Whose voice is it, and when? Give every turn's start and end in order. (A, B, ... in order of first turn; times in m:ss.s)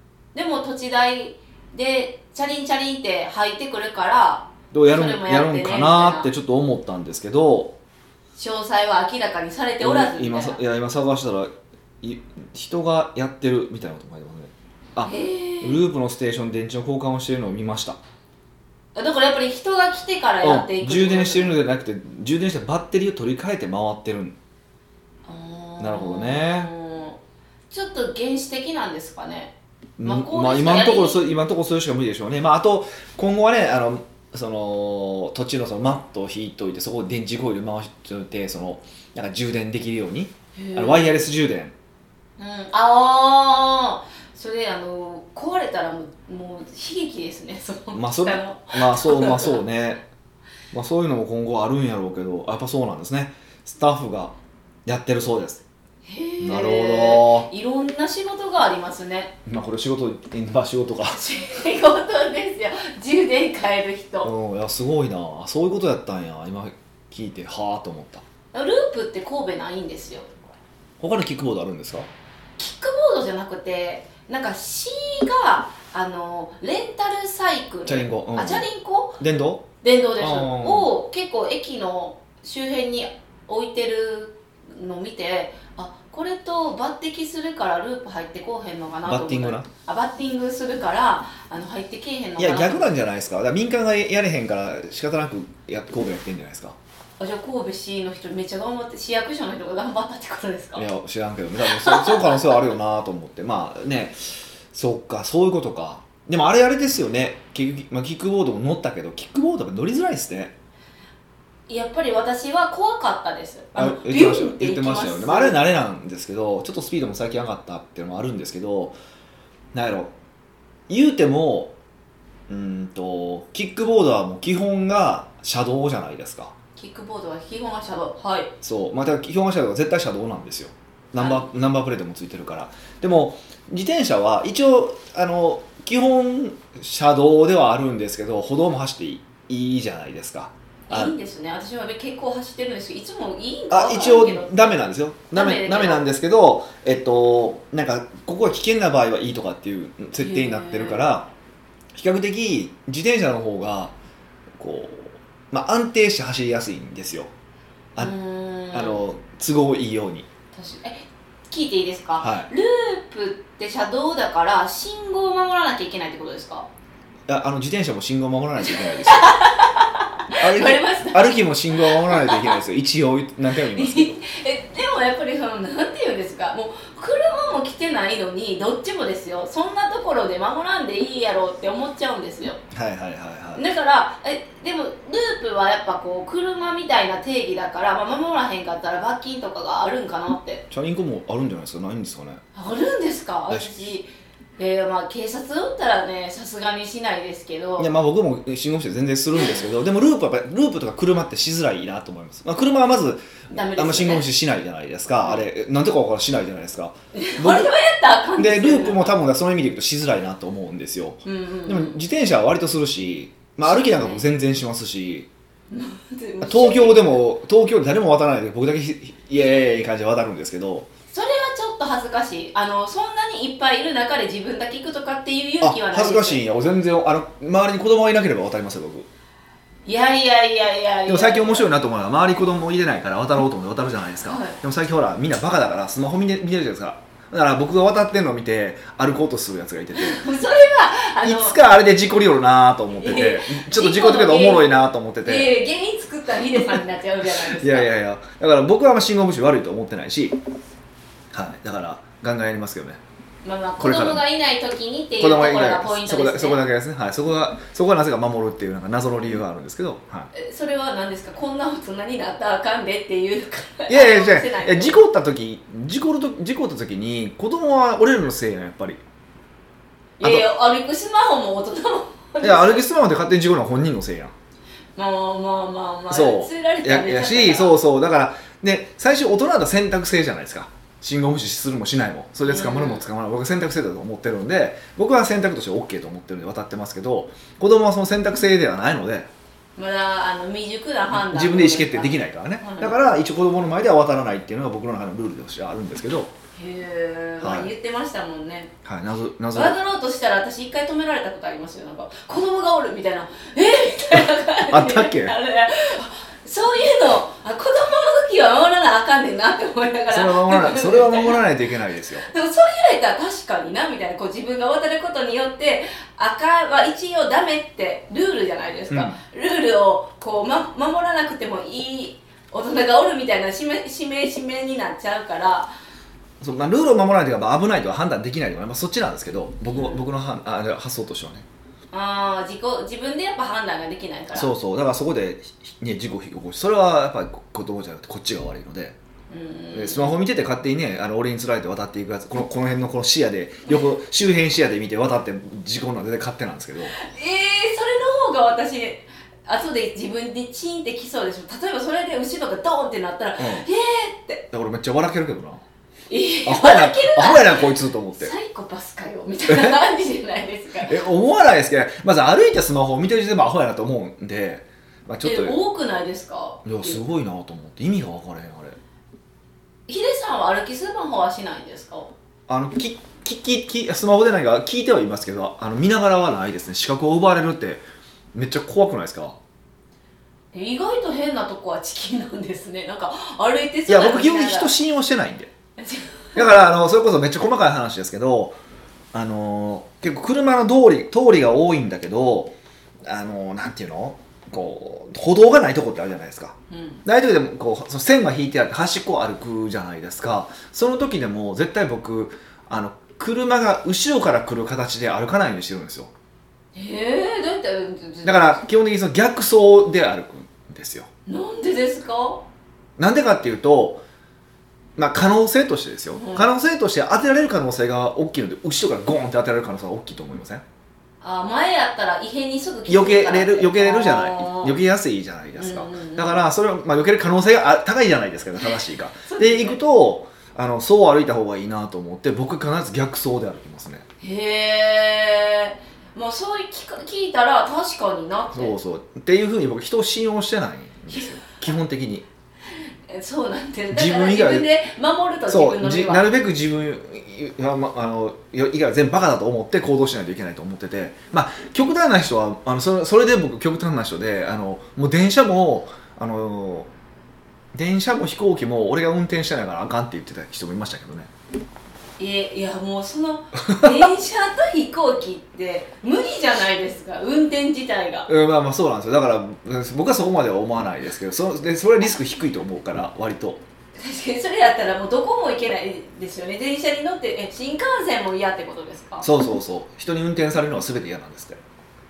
0:00.3-0:06.3 A
0:04.7-0:07.8 B
0:08.4-0:10.6 A
0:09.8-0:11.5 B
0:12.0-0:18.0 B
0:15.0-0:15.8 A
0:19.0-0:21.6 A
0:20.4-0:24.4 B
0:25.3-0:27.2 A
0:25.8-0:26.7 B
0:27.7-0:31.2 A
0:30.0-0:41.7 B
0:40.6-0:41.3 A
0:42.4-0:49.6 A
0:47.9-0:50.0 B
0:50.7-0:54.4 B
0:54.9-0:55.6 B
0:56.0-0:59.4 A
0:56.4-0:57.5 B
0:59.5-1:01.2 B
1:01.1-1:04.3 A
1:04.2-1:08.2 B
1:08.5-1:10.3 A
1:11.0-1:12.1 B
1:12.6-1:19.2 A
1:17.9-1:18.7 B
1:19.2-1:19.7 B
1:19.8-1:33.0 A
1:20.2-1:20.9 B
1:29.1-1:29.7 B
1:32.4-1:36.8 B
1:37.2-1:40.8 A
1:40.8-1:50.6 B
1:41.7-1:42.6 A
1:51.7-1:55.6 A
1:53.8-1:59.0 B
1:59.7-2:00.1 B
2:00.9-2:01.7 B
2:02.5-2:06.5 B
2:06.8-2:08.5 A
2:08.6-2:21.2 B
2:11.2-2:11.5 A
2:20.9-2:24.8 A
2:23.7-2:31.3 B
2:25.3-2:26.0 A
2:30.2-2:31.1 A
2:31.9-2:34.0 B
2:34.6-2:37.3 B
2:38.0-2:39.0 A
2:38.7-2:40.3 B
2:40.5-2:46.7 A
2:42.2-2:42.5 B
2:47.3-2:49.4 B
2:48.7-2:52.6 A
2:50.4-2:54.2 B
2:53.7-3:02.6 A
3:02.7-3:03.6 B
3:03.6-3:10.6 A
3:10.7-3:12.4 B
3:12.6-3:17.9 A
3:13.5-3:13.8 B
3:17.8-3:27.7 B
3:23.5-3:24.3 A
3:27.1-3:29.2 A
3:28.4-3:35.3 B
3:31.2-3:32.0 A
3:33.6-3:34.2 A
3:35.7-3:37.2 A
3:36.4-3:40.9 B
3:41.1-3:46.4 A
3:45.6-3:49.1 B
3:49.9-3:51.7 A
3:51.1-4:00.2 B
3:54.2-3:54.6 A
4:00.0-4:01.6 A
4:01.2-4:05.5 B
4:03.0-4:04.7 A
4:05.2-4:07.9 A
4:06.6-4:10.4 B
4:11.3-4:13.0 B
4:13.4-4:16.6 A
4:13.8-4:14.2 B
4:15.2-4:20.3 B
4:20.3-4:25.0 A
4:23.9-4:29.0 B
4:30.2-4:32.9 A
4:30.2-4:30.5 B
4:32.4-4:34.3 B
4:35.0-4:37.8 A
4:36.1-4:49.3 B
4:42.4-4:43.0 A
4:49.8-4:53.0 A
4:51.1-4:56.3 B
4:56.6-4:58.7 A
4:57.4-4:57.7 B
4:58.8-4:59.8 B
4:59.5-5:11.4 A
5:04.7-5:05.4 B
5:10.1-5:12.3 B
5:12.2-5:25.7 A
5:18.9-5:19.2 B
5:26.4-5:31.5 B
5:29.6-5:30.0 A
5:31.9-5:34.5 A
5:34.3-5:39.0 B
5:39.3-5:40.1 A
5:39.7-5:47.0 B
5:46.9-5:54.4 A
5:53.4-5:53.7 B
5:54.5-5:55.6 B
5:56.1-6:01.0 A
5:56.5-5:58.3 B
5:59.5-5:59.8 B
6:00.8-6:05.6 B
6:05.2-6:07.0 A
6:06.6-6:08.8 B
6:09.9-6:12.1 A
6:12.5-6:19.4 B
6:20.5-6:24.8 A
6:23.9-6:25.5 B
6:25.8-6:26.5 A
6:26.4-6:28.6 B
6:29.1-6:32.5 B
6:33.0-6:46.1 B
6:36.7-6:37.0 A
6:46.7-6:48.6 A
6:48.2-6:51.1 B
6:51.3-6:52.4 A
6:53.0-6:54.0 B
6:55.0-7:00.6 B
6:56.2-6:56.5 A
7:01.2-7:04.8 A
7:02.9-7:14.0 B
7:05.6-7:06.4 A
7:08.6-7:09.8 A
7:14.2-7:18.8 A
7:18.5-7:22.2 B
7:22.7-7:26.3 A
7:23.9-7:24.7 B
7:25.5-7:36.9 B
7:37.7-7:41.3 B
7:42.2-7:48.3 A
7:43.7-7:44.1 B
7:48.3-7:53.6 B
7:54.0-7:59.3 A
7:59.2-8:01.6 B